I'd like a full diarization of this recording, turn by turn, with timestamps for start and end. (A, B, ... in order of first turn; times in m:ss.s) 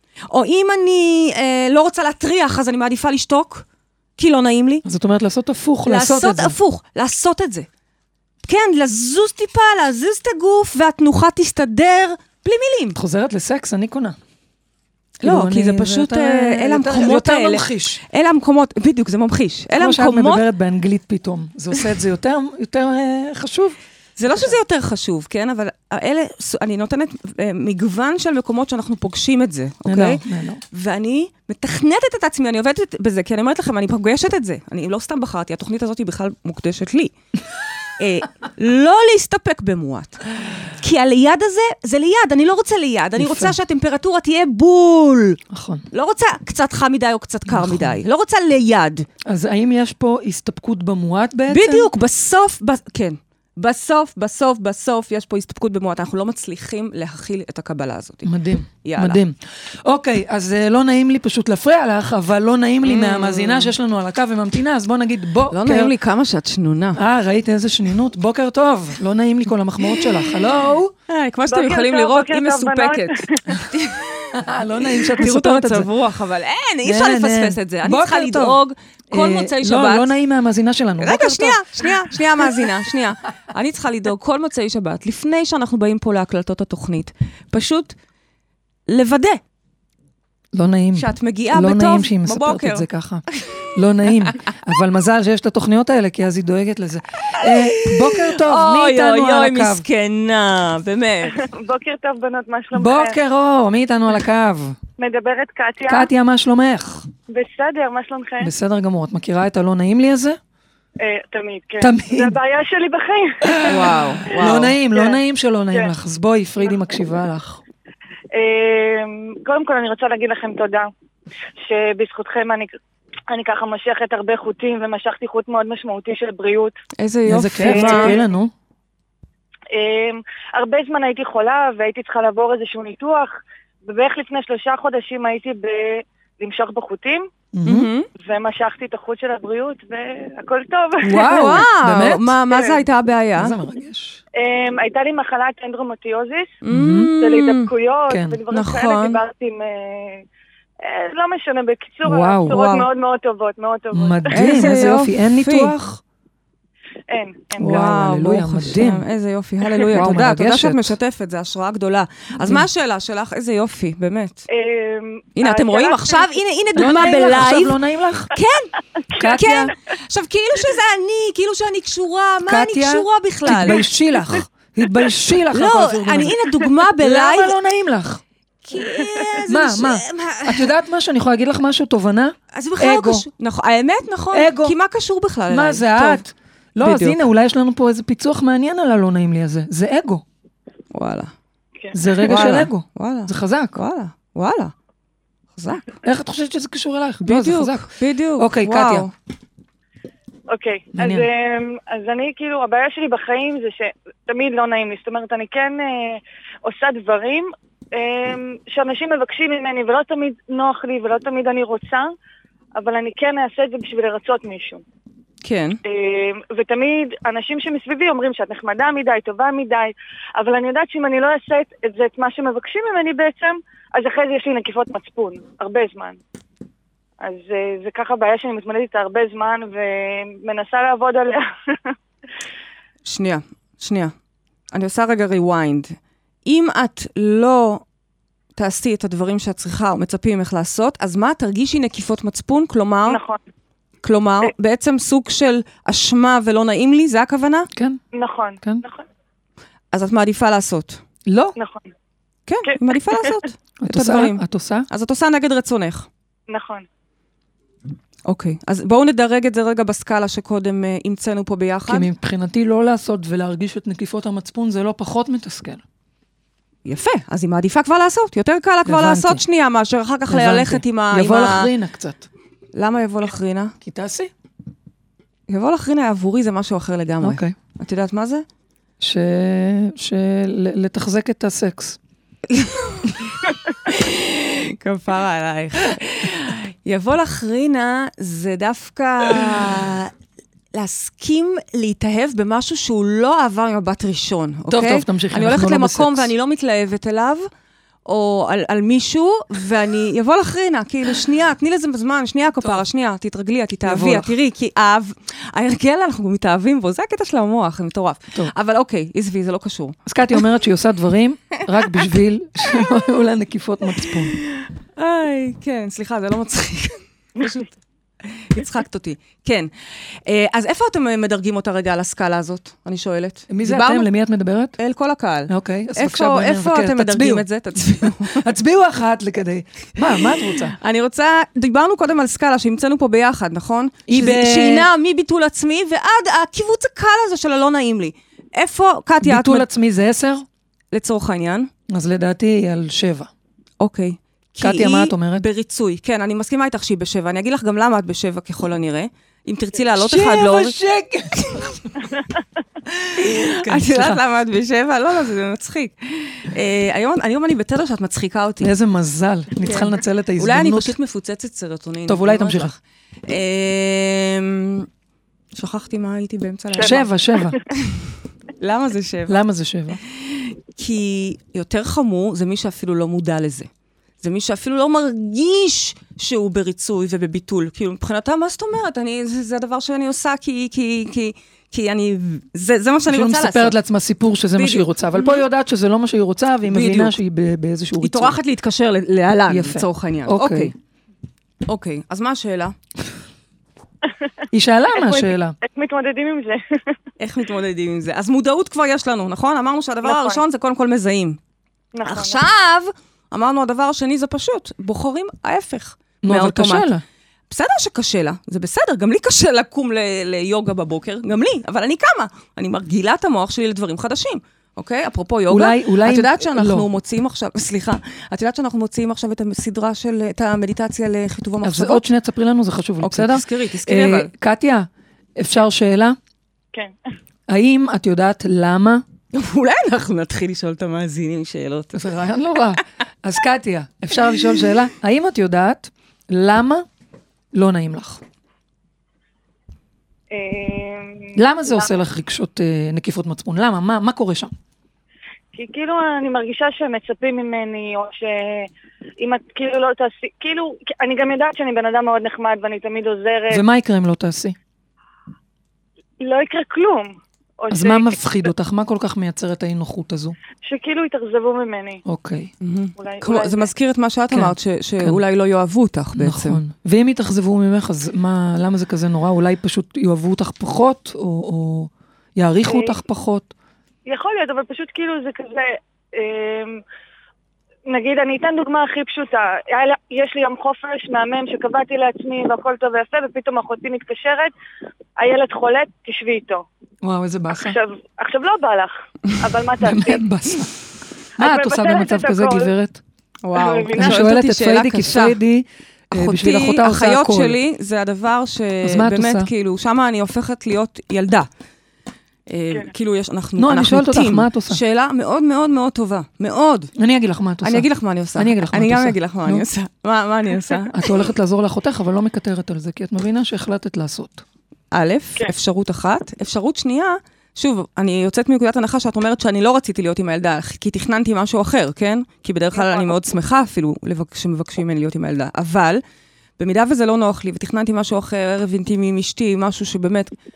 0:00.3-0:03.6 A
0:04.2-0:04.8 A
0:04.8-0:06.6 B
0:05.8-0:07.7 A
0:08.4-0:13.0 A
0:13.0-0:14.2 B
0:15.2-0:20.5 A
0:15.2-0:18.0 B
0:19.8-0:23.8 B
0:24.2-0:37.2 A
0:29.9-0:30.6 B
0:38.0-0:45.4 A
0:43.2-0:43.6 B
0:45.5-0:45.8 B
0:45.9-0:49.1 A
0:47.5-0:48.0 B
0:49.2-0:51.9 B
0:51.5-0:59.2 A
0:58.2-1:05.9 B
1:02.8-1:03.7 A
1:05.5-1:07.0 A
1:07.0-1:10.9 B
1:09.9-1:10.3 A
1:11.1-1:20.1 A
1:11.5-1:13.6 C
1:14.3-1:15.9 B
1:16.8-1:18.6 B
1:19.1-1:22.7 B
1:21.0-1:28.0 A
1:28.9-1:29.4 A
1:30.5-1:39.8 B
1:31.0-1:34.5 A
1:37.4-1:41.5 A
1:41.4-1:43.2 C
1:42.7-1:44.8 B
1:45.0-1:46.1 C
1:45.9-1:47.1 B
1:47.3-1:48.5 C
1:48.4-1:50.4 B
1:51.0-1:55.2 C
1:51.8-1:52.4 B
1:53.4-1:57.6 B
1:53.6-1:54.7 A
1:58.3-2:00.9 C
2:01.6-2:02.7 C
2:03.3-2:06.8 C
2:07.0-2:08.2 A
2:07.3-2:08.5 B
2:07.6-2:08.2 C
2:09.7-2:13.3 C
2:13.9-2:17.3 C
2:17.5-2:17.9 B
2:17.6-2:18.1 A
2:18.2-2:21.6 C
2:21.0-2:22.4 B
2:21.2-2:23.6 A
2:22.5-2:22.8 C
2:23.4-2:24.2 B
2:24.4-2:26.6 C
2:26.6-2:27.7 A
2:26.7-2:27.1 B
2:27.2-2:30.2 C
2:28.1-2:28.4 B
2:28.5-2:29.2 A
2:30.8-2:34.8 C
2:32.0-2:32.6 B
2:32.5-2:32.9 A
2:33.9-2:36.0 B
2:34.3-2:35.8 A
2:37.1-2:37.8 C
2:37.6-2:39.1 B
2:37.6-2:44.5 A
2:39.9-2:41.0 B
2:44.5-2:46.3 C
2:45.4-2:47.8 A
2:46.8-2:48.3 B
2:48.3-2:48.7 A
2:49.2-2:49.7 B
2:49.4-2:53.8 A
2:52.5-2:58.2 B
2:55.5-2:57.6 A
2:58.6-3:00.7 A
2:59.5-3:03.3 B
3:02.5-3:06.2 A
3:04.3-3:04.8 B
3:05.5-3:10.2 B
3:06.8-3:07.2 A
3:10.9-3:11.3 A
3:11.9-3:13.8 B
3:12.3-3:14.7 A
3:15.6-3:15.9 A
3:16.0-3:19.1 B
3:17.2-3:19.1 A
3:20.5-3:32.1 C
3:21.0-3:21.3 B
3:32.8-3:34.8 C
3:35.4-3:35.8 A
3:35.8-3:46.2 C
3:47.2-3:51.9 C
3:53.0-3:54.1 A
3:54.7-3:57.8 A
3:58.6-4:03.2 A
4:03.1-4:03.4 C
4:04.0-4:07.7 A
4:07.7-4:08.0 B
4:08.1-4:09.0 C
4:09.9-4:11.0 A
4:11.3-4:11.6 B
4:11.6-4:11.9 C
4:12.5-4:16.1 A
4:13.8-4:14.9 B
4:16.5-4:16.9 C
4:18.3-4:22.1 A
4:21.9-4:25.8 B
4:26.8-4:31.7 A
4:28.8-4:29.4 B
4:30.3-4:32.3 B
4:32.8-4:33.8 A
4:33.8-4:34.3 B
4:35.5-4:38.5 A
4:37.2-4:37.6 B
4:39.0-4:42.0 B
4:42.5-4:43.3 A
4:43.8-4:50.1 A
4:50.7-4:57.5 A
4:54.7-4:56.3 B
4:58.1-5:10.0 A
5:03.8-5:04.3 B
5:10.1-5:14.4 B
5:14.5-5:17.8 A
5:18.3-5:24.1 A
5:23.5-5:24.8 B
5:24.8-5:28.5 A
5:25.5-5:30.8 B
5:30.6-5:39.7 A
5:34.1-5:34.9 B
5:39.2-5:40.5 B
5:40.9-5:41.7 A
5:41.9-5:43.3 B
5:43.8-5:50.8 A
5:44.6-5:45.4 B
5:50.0-5:52.1 B
5:51.4-5:51.7 A
5:53.1-5:54.2 B
5:53.1-5:58.7 A
5:58.6-6:01.0 B
5:59.6-6:02.8 A
6:02.1-6:02.7 B
6:03.3-6:04.9 A
6:05.5-6:07.1 A
6:06.8-6:07.6 B
6:07.7-6:08.0 A
6:08.6-6:09.4 A
6:09.3-6:10.0 B
6:10.2-6:13.7 A
6:14.2-6:23.8 A
6:23.1-6:28.4 B
6:24.6-6:25.4 A
6:26.7-6:27.2 A
6:28.0-6:30.7 A
6:29.5-6:30.7 B
6:31.7-6:32.8 A
6:34.5-6:35.6 B
6:34.9-6:37.0 C
6:37.2-6:41.4 A
6:40.0-6:40.4 C
6:41.9-6:42.4 C
6:42.0-6:46.9 A
6:46.2-6:47.0 B
6:47.5-7:02.1 A
6:55.5-6:56.9 B
7:01.6-7:06.2 B
7:03.0-7:04.3 A
7:07.5-7:09.0 B
7:09.3-7:12.1 A
7:11.9-7:16.9 B
7:17.5-7:18.2 B
7:20.3-7:21.8 C
7:21.4-7:24.5 B
7:25.5-7:28.7 C
7:29.2-7:33.6 C
7:33.5-7:34.6 B
7:36.2-7:38.3 C
7:37.7-7:40.4 B
7:40.6-7:42.0 C
7:42.1-7:42.5 B
7:42.6-7:46.6 A
7:43.0-7:43.7 C
7:44.3-7:45.2 B
7:46.2-7:53.5 B
7:52.7-7:52.9 C
7:54.1-7:56.8 C
7:57.9-8:04.5 C
8:05.2-8:06.7 C
8:07.0-8:07.8 B
8:07.5-8:10.2 C
8:09.8-8:10.8 B
8:11.4-8:13.0 B
8:11.4-8:12.7 C
8:13.4-8:15.4 A
8:13.6-8:14.3 C
8:14.0-8:17.6 B
8:16.1-8:21.5 A
8:18.8-8:19.5 B
8:22.5-8:26.9 A
8:23.6-8:24.8 B
8:27.0-8:29.6 B
8:27.6-8:31.1 A
8:30.9-8:34.4 B
8:34.9-8:46.0 A
8:42.8-8:43.1 C
8:46.6-8:50.3 A